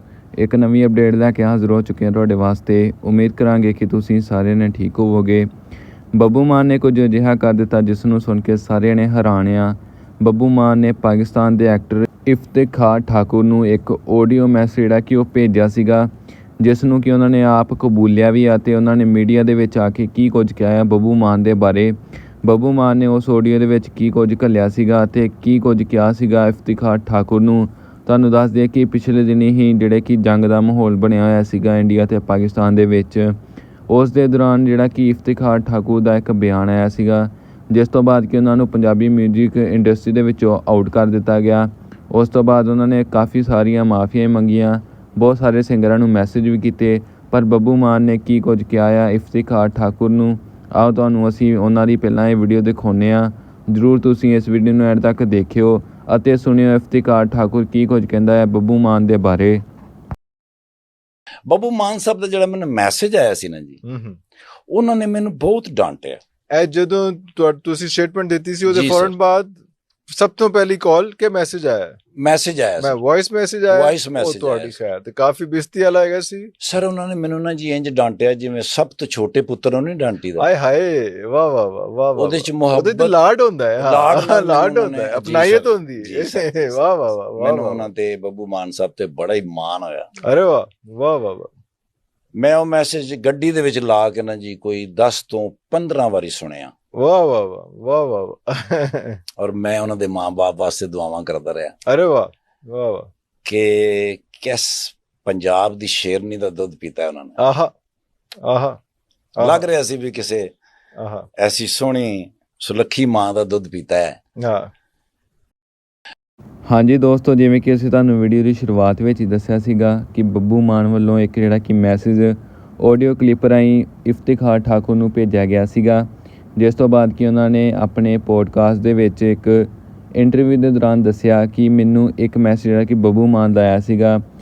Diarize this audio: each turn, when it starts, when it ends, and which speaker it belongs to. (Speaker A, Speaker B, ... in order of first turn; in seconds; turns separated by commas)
Speaker A: 0.4-5.5, Speaker A: 6.1-33.4, Speaker A: 33.9-59.6, Speaker B: 61.5-63.8, Speaker C: 63.8-64.2, Speaker B: 64.7-66.2, Speaker C: 66.5-69.6, Speaker B: 68.7-69.1, Speaker C: 70.1-72.0, Speaker B: 72.2-73.0, Speaker C: 72.8-76.5, Speaker B: 73.7-74.7, Speaker B: 76.6-80.5, Speaker C: 80.4-87.9, Speaker B: 82.2-83.1, Speaker B: 83.8-86.8, Speaker B: 87.4-90.1, Speaker C: 90.2-91.5, Speaker B: 92.3-96.7, Speaker C: 97.0-99.2, Speaker B: 99.4-101.7, Speaker C: 101.9-103.1, Speaker B: 103.5-107.4, Speaker C: 107.4-107.7, Speaker C: 108.4-108.8, Speaker C: 109.4-109.7, Speaker B: 109.4-110.5, Speaker C: 111.0-111.3, Speaker B: 111.4-114.2, Speaker C: 114.4-114.7, Speaker A: 116.7-134.2